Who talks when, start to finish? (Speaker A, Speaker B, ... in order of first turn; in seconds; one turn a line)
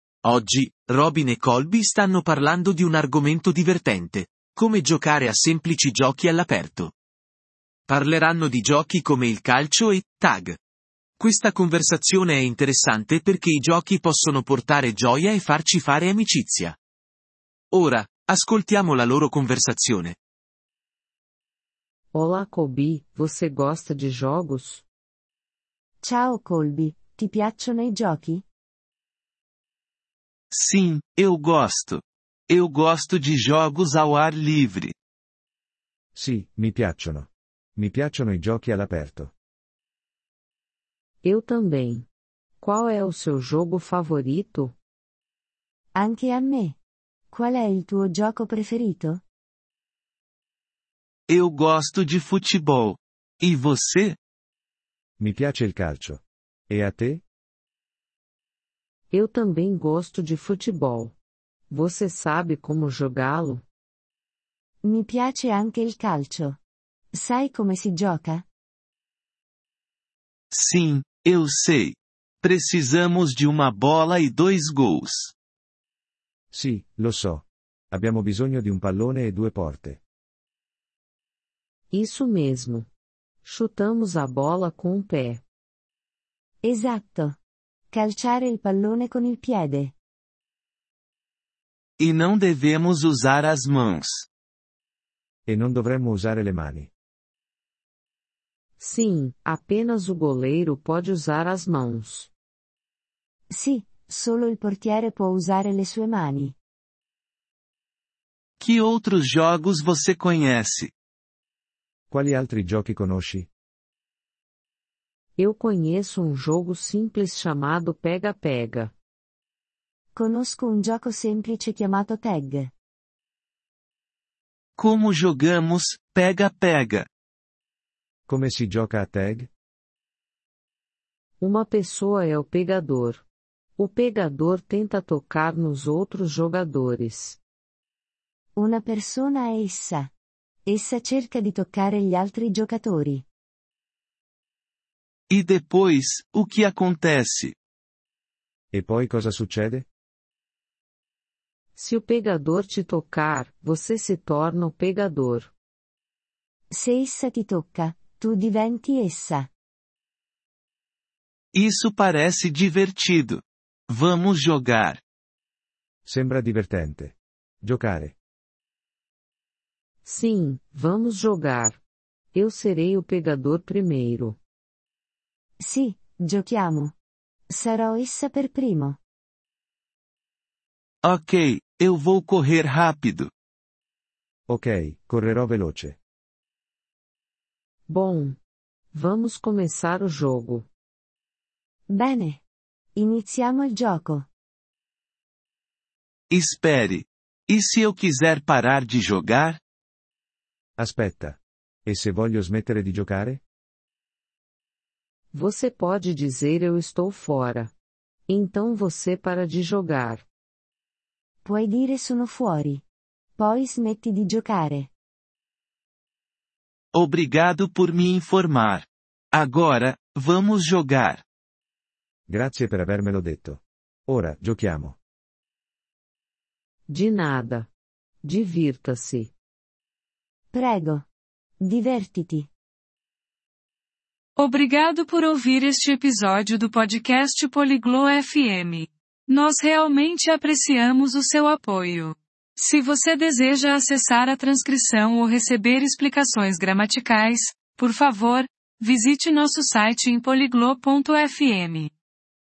Speaker A: 0.2-7.0
Speaker A: 7.9-10.6
Speaker A: 11.2-16.8
Speaker A: 17.7-20.2
Speaker B: 22.1-24.9
Speaker C: 26.0-28.4
Speaker D: 30.5-34.9
Speaker E: 36.1-39.3
Speaker B: 41.2-42.1
Speaker B: 42.6-44.7
Speaker C: 46.0-46.8
Speaker C: 47.3-49.2
Speaker D: 51.3-54.2
Speaker E: 55.2-57.2
Speaker B: 59.1-61.1
Speaker B: 61.7-63.6
Speaker C: 64.8-66.6
Speaker C: 67.1-68.5
Speaker D: 70.5-75.3
Speaker E: 76.5-80.0
Speaker B: 81.9-82.9
Speaker B: 83.4-85.4
Speaker C: 86.6-87.4
Speaker C: 87.9-89.9
Speaker D: 92.0-94.3
Speaker E: 95.5-96.9
Speaker B: 98.8-102.3
Speaker C: 103.5-106.5
Speaker D: 108.6-110.9
Speaker E: 112.1-113.5
Speaker B: 115.4-118.9
Speaker C: 120.2-122.7
Speaker D: 124.8-127.1
Speaker E: 128.3-129.5
Speaker B: 131.4-133.2
Speaker B: 133.8-137.4
Speaker C: 138.6-140.1
Speaker C: 140.7-143.2
Speaker D: 145.3-147.6
Speaker E: 148.7-149.9
Speaker B: 151.8-155.5
Speaker C: 156.7-159.5
Speaker D: 161.6-165.0
Speaker E: 166.1-168.2
Speaker B: 170.1-171.8
Speaker B: 172.3-174.4
Speaker C: 175.6-176.9
Speaker C: 177.5-179.0
Speaker D: 181.0-183.3
Speaker E: 184.5-186.0
Speaker B: 187.9-188.4
Speaker B: 188.9-190.7
Speaker C: 191.9-192.4
Speaker C: 193.0-194.3
Speaker D: 196.3-199.6
Speaker E: 200.8-203.4
Speaker B: 205.3-207.7
Speaker B: 208.3-210.3
Speaker C: 211.4-212.8
Speaker C: 213.4-214.9
Speaker D: 216.9-221.2
Speaker E: 222.3-225.0
Speaker B: 226.9-227.7
Speaker B: 228.2-229.3
Speaker C: 230.5-231.0
Speaker C: 231.6-232.5
Speaker F: 234.4-251.9